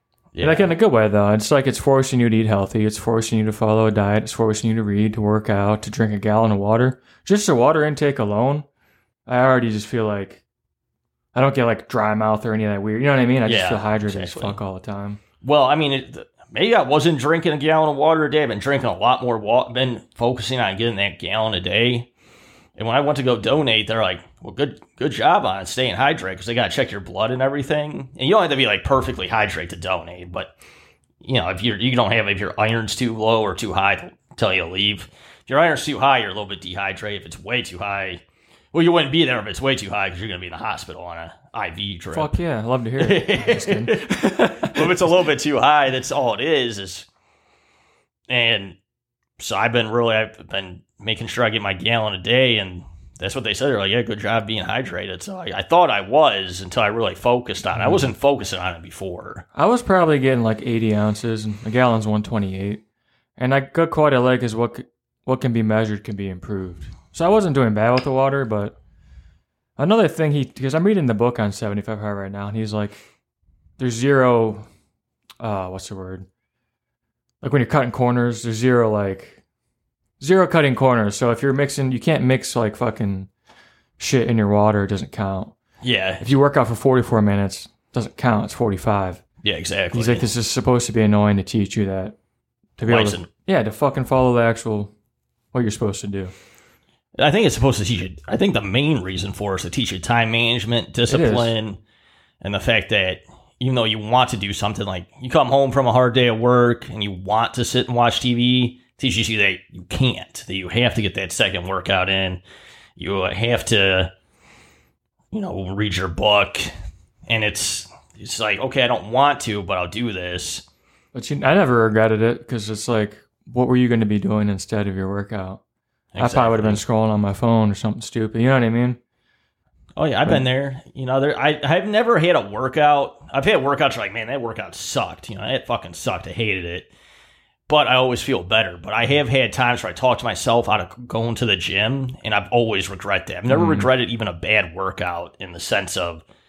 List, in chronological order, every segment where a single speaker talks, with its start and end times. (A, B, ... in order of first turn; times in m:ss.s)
0:00.3-0:00.7 A
0:00.4-0:08.6 B
0:09.3-0:10.4 B
0:11.3-0:15.2 B
0:13.4-0:14.6 A
0:15.4-0:22.1 A
0:22.8-0:30.5 A
0:31.2-0:42.4 A
0:42.1-0:44.9 B
0:43.0-0:47.1 A
0:48.3-0:48.8 A
0:49.4-0:59.4 A
0:57.7-0:58.1 B
0:59.5-1:02.8 B
1:03.4-1:08.8 B
1:09.8-1:13.0 B
1:13.8-1:14.6 B
1:15.4-1:16.2 B
1:17.4-1:19.4 B
1:20.2-1:23.3 B
1:24.0-1:25.6 B
1:25.8-1:26.2 A
1:26.2-1:29.2 B
1:29.4-1:30.3 A
1:29.9-1:32.1 B
1:32.8-1:34.9 B
1:32.8-1:33.3 A
1:35.5-1:36.3 B
1:37.2-1:41.8 A
1:41.1-1:41.5 B
1:42.4-1:52.4 A
1:53.0-1:54.1 A
1:55.3-1:56.7 A
1:57.3-2:00.6 A
2:01.1-2:05.6 B
2:06.1-2:06.8 A
2:06.2-2:09.0 B
2:10.0-2:16.9 A
2:17.7-2:26.2 A
2:23.5-2:23.9 B